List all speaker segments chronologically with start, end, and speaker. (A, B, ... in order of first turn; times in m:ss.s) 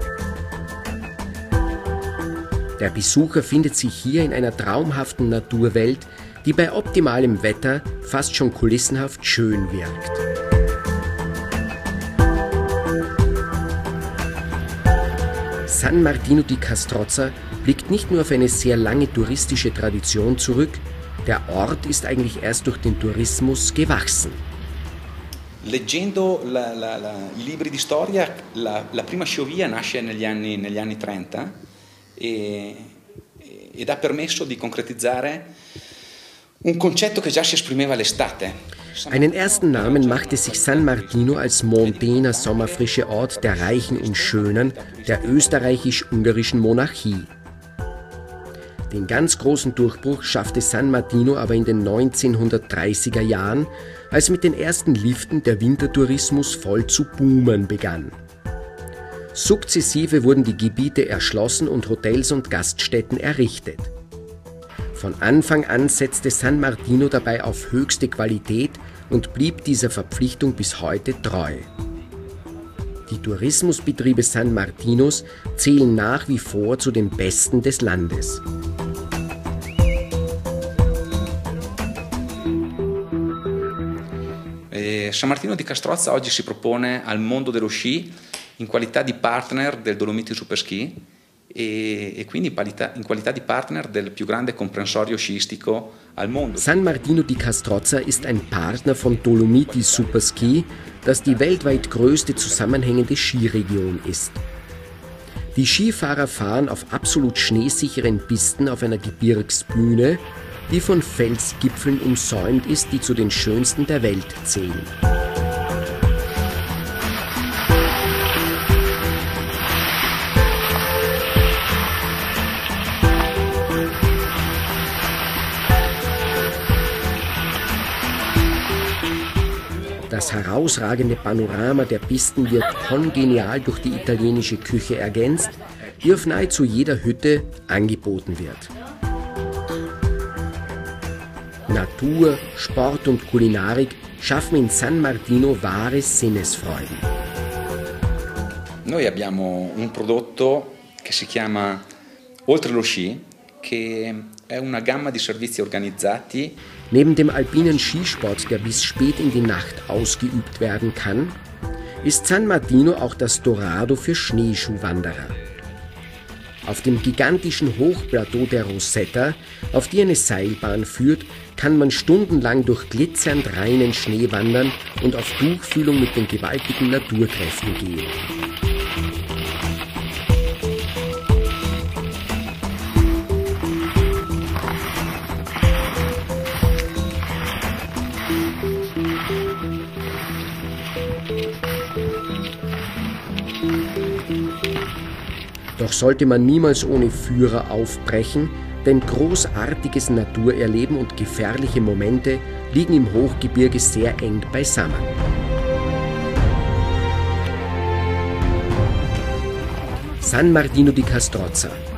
0:02.8-0:10.2 A
0:15.6-0:24.4 A
0:25.6-0:31.6 B
0:32.2-0:35.5 B
0:36.6-0:45.9 B
0:39.1-0:47.3 A
0:48.9-0:58.2 A
0:59.3-1:03.9 A
1:04.9-1:11.7 A
1:13.1-1:18.4 A
1:24.7-1:36.9 B
1:36.6-1:44.4 A
1:38.3-1:42.8 B
1:45.5-1:54.9 A
2:10.0-2:18.7 A
2:21.7-2:27.0 A
2:28.8-2:31.9 B
2:32.4-2:36.6 B
2:36.9-2:41.4 A
2:38.2-2:38.7 B
2:42.0-2:45.4 A
2:46.6-2:58.2 A
3:15.8-3:25.1 A
3:30.2-3:31.8 A